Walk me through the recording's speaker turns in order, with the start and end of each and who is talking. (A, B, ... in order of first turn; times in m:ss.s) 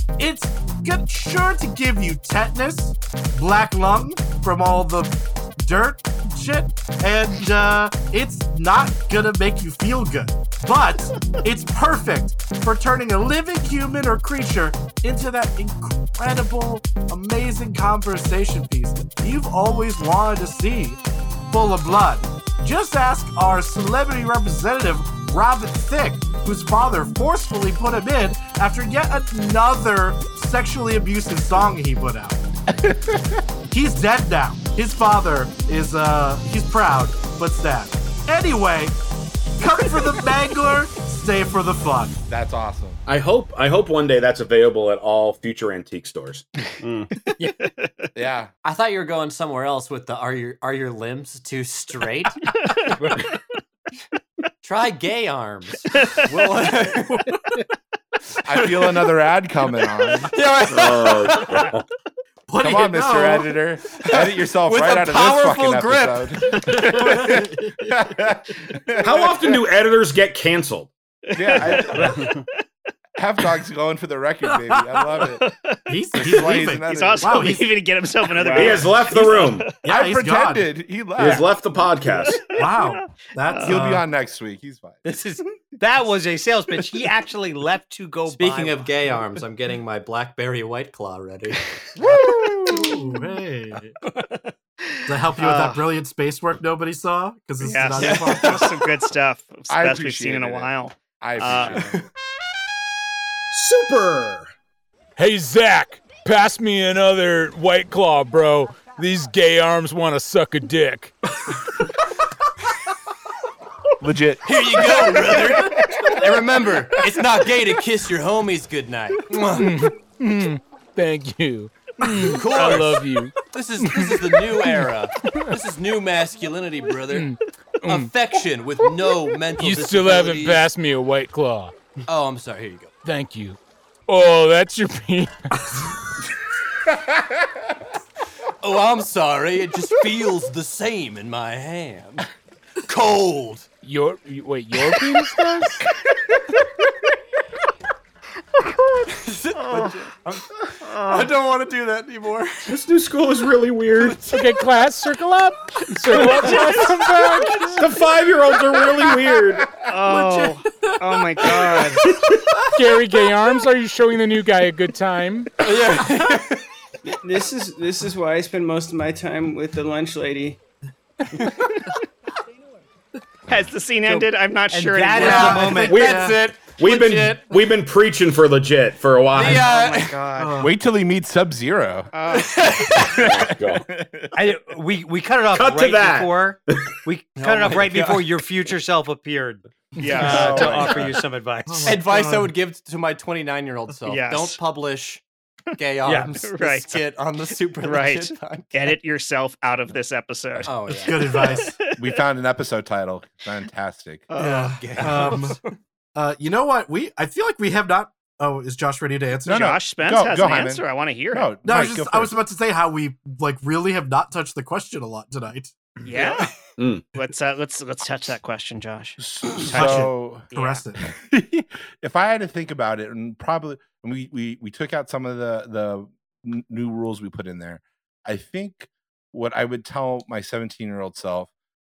0:00.2-0:32.4 A
0:32.7-0:33.4 B
0:33.7-0:39.0 A
0:39.6-0:42.2 A
0:42.3-0:43.0 B
0:43.0-0:46.4 C
0:46.8-0:47.1 D
0:47.3-0:47.9 E
0:48.1-0:48.5 B
0:48.6-0:52.4 F
0:54.6-0:57.4 F
0:55.9-0:56.2 E
0:58.4-1:00.3 B
0:58.5-0:59.1 F
1:00.3-1:01.6 F
1:00.7-1:01.8 C
1:02.5-1:03.5 A
1:02.6-1:09.4 B
1:03.9-1:07.2 F
1:06.7-1:07.7 A
1:09.0-1:10.9 C
1:11.3-1:12.4 E
1:11.3-1:12.3 B
1:13.2-1:15.4 B
1:15.2-1:15.8 E
1:15.9-1:17.7 A
1:16.1-1:17.6 B
1:16.4-1:19.7 E
1:18.4-1:18.9 D
1:18.4-1:19.8 C
1:19.8-1:20.6 A
1:19.8-1:21.5 B
1:21.2-1:22.5 C
1:22.2-1:23.0 E
1:22.4-1:24.0 A
1:23.5-1:23.7 E
1:23.6-1:25.0 B
1:25.0-1:28.9 G
1:28.3-1:31.8 F
1:32.0-1:33.1 B
1:32.6-1:33.9 A
1:34.9-1:35.8 E
1:35.1-1:38.8 A
1:37.6-1:41.8 E
1:39.7-1:42.0 B
1:43.6-1:44.4 C
1:45.2-1:51.2 H
1:54.0-1:56.1 B
1:54.4-1:59.9 F
1:59.4-2:05.6 H
2:02.0-2:07.3 F
2:02.5-2:02.9 G
2:07.1-2:08.1 H
2:07.8-2:10.7 F
2:09.6-2:11.7 H
2:12.1-2:12.9 F
2:13.0-2:15.7 H
2:17.0-2:17.4 B
2:18.6-2:22.3 F
2:22.8-2:23.7 F
2:23.8-2:25.8 H
2:29.1-2:30.4 F
2:29.5-2:30.1 E
2:30.8-2:31.3 E
2:31.0-2:32.8 F
2:32.6-2:34.3 C
2:34.0-2:34.4 F
2:34.2-2:37.8 H
2:37.7-2:39.7 C
2:39.9-2:42.0 E
2:40.0-2:41.9 A
2:42.7-2:45.6 H
2:45.6-2:46.6 F
2:47.0-2:50.6 D
2:53.5-2:55.7 E
2:54.1-2:56.1 G
2:55.1-2:56.4 A
2:55.2-2:57.5 F
2:55.8-2:59.6 C
2:59.3-3:00.3 F
2:59.5-3:00.5 E
3:00.4-3:00.7 A
3:00.6-3:02.1 B
3:02.1-3:02.5 E
3:02.3-3:03.2 F
3:03.0-3:04.3 B
3:03.1-3:03.8 C
3:04.3-3:12.0 G
3:05.5-3:06.9 C
3:07.4-3:08.3 F
3:10.0-3:10.9 E
3:10.2-3:11.1 B
3:11.6-3:12.5 A
3:11.8-3:15.2 F
3:14.1-3:14.6 E
3:15.8-3:18.7 F
3:16.0-3:16.3 G
3:16.4-3:17.0 E
3:17.8-3:21.8 E
3:20.6-3:21.6 F
3:20.9-3:21.8 A
3:22.0-3:24.3 B
3:24.3-3:25.4 E
3:24.4-3:25.6 A
3:24.8-3:25.5 F
3:26.1-3:29.7 A
3:29.4-3:32.3 B
3:29.5-3:31.5 E
3:31.6-3:35.7 A
3:36.0-3:36.5 E
3:36.8-3:37.0 C
3:37.1-3:40.8 E
3:39.2-3:40.4 B
3:39.7-3:41.0 A
3:41.0-3:51.5 B